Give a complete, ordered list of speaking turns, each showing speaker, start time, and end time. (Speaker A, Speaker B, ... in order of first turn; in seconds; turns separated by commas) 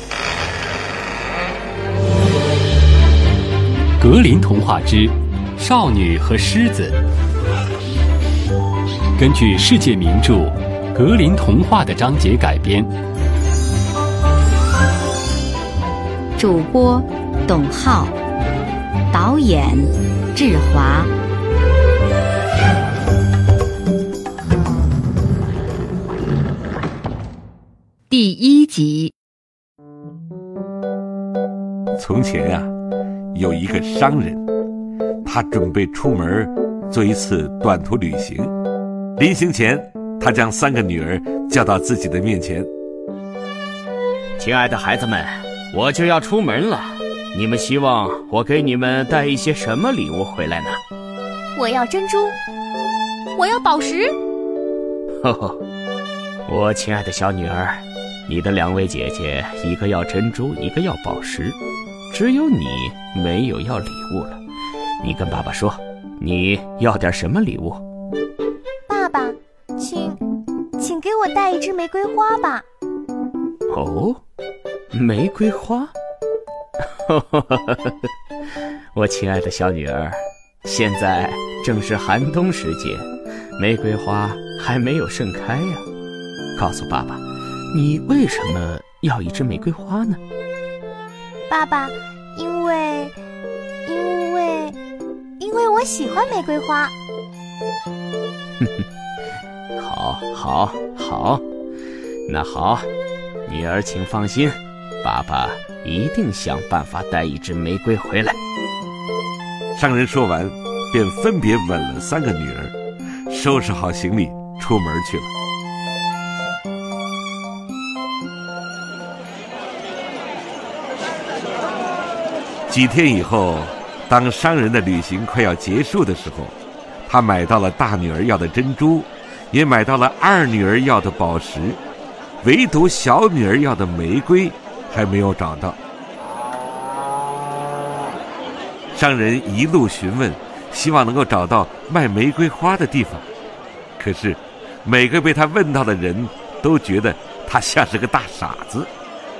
Speaker A: 4.0-7.0, Speaker A: 9.2-12.9, Speaker B: 16.4-18.1, Speaker B: 19.1-21.1, Speaker B: 28.1-29.1, Speaker C: 32.0-32.7, Speaker C: 33.3-34.4, Speaker C: 35.2-38.5, Speaker C: 39.2-42.7, Speaker D: 44.4-50.8, Speaker E: 51.6-52.4, Speaker E: 53.4-54.1, Speaker D: 55.2-55.6, Speaker D: 56.5-61.6, Speaker D: 62.1-64.4, Speaker D: 65.0-67.8, Speaker E: 68.9-70.2, Speaker E: 70.8-72.6, Speaker D: 73.7-74.2, Speaker D: 74.9-75.9, Speaker D: 77.1-78.0, Speaker D: 78.9-85.9, Speaker D: 86.5-90.2, Speaker E: 91.5-93.1, Speaker E: 93.8-94.8, Speaker E: 95.4-96.9, Speaker D: 98.6-98.8, Speaker D: 99.8-101.4, Speaker D: 102.3-102.9, Speaker D: 103.5-108.4, Speaker C: 109.7-112.7, Speaker C: 113.3-115.3, Speaker C: 122.7-126.5, Speaker C: 127.0-131.8, Speaker C: 132.4-135.8, Speaker C: 138.9-143.2, Speaker C: 144.0-148.9